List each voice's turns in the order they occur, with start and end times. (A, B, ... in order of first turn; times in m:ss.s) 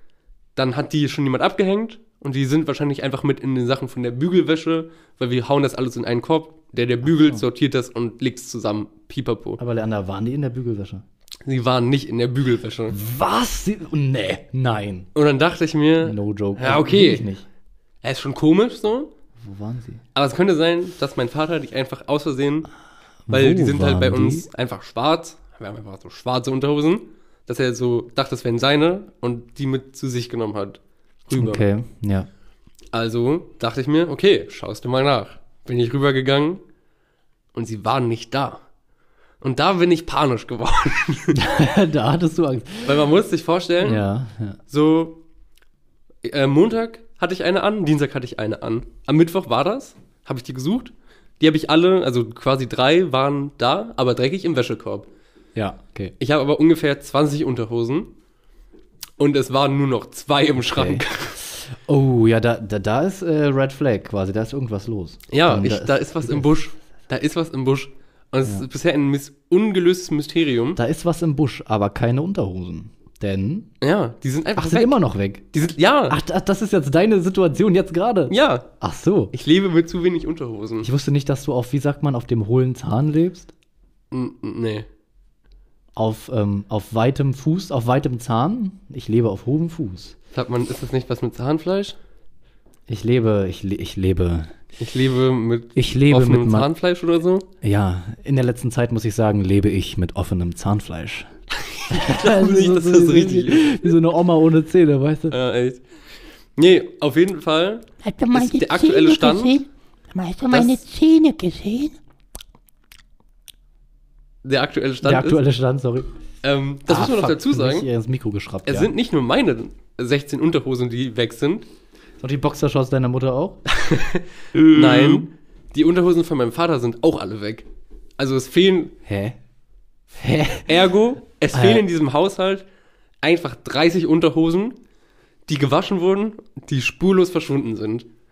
0:00.6-0:09.6 A
0:07.0-0:07.4 B
0:09.6-0:11.0 B
0:11.4-0:13.0 A
0:12.9-0:15.1 B
0:15.1-0:17.2 A
0:16.0-0:17.5 B
0:18.0-0:19.1 A
0:19.4-0:20.0 B
0:20.1-0:22.7 A
0:23.3-0:24.5 B
0:23.3-0:31.6 A
0:31.3-0:32.3 B
0:32.9-0:36.6 A
0:37.5-0:38.6 A
0:39.4-0:41.4 A
0:41.4-0:43.1 B
0:42.8-0:44.1 A
0:43.8-0:44.6 B
0:44.7-0:45.2 A
0:46.2-0:55.1 A
0:55.5-0:56.1 B
0:56.2-0:58.1 A
0:59.2-1:01.4 A
1:00.6-1:06.5 B
1:05.3-1:10.8 A
1:10.8-1:13.7 B
1:13.8-1:15.0 A
1:14.6-1:15.5 B
1:15.5-1:16.2 A
1:16.1-1:19.3 B
1:18.3-1:18.6 A
1:19.3-1:20.9 A
1:20.8-1:23.5 B
1:24.1-1:24.9 A
1:26.0-1:30.1 B
1:30.3-1:32.0 A
1:32.9-1:34.5 B
1:34.8-1:37.5 A
1:35.8-1:36.7 B
1:37.6-1:41.3 B
1:41.6-1:43.8 A
1:41.9-1:45.4 B
1:45.3-1:45.8 A
1:46.6-1:49.6 A
1:48.0-1:52.0 C
1:50.5-1:50.8 A
1:54.4-1:55.4 A
1:55.0-1:56.1 B
1:56.4-1:57.9 A
1:56.9-1:58.9 B
1:58.6-2:01.6 A
2:02.2-2:03.6 B
2:03.7-2:07.7 A
2:04.8-2:05.2 B
2:08.2-2:08.9 A
2:09.0-2:09.4 B
2:10.1-2:10.8 B
2:10.7-2:12.6 A
2:11.5-2:11.8 B
2:13.2-2:14.8 A
2:15.5-2:18.1 A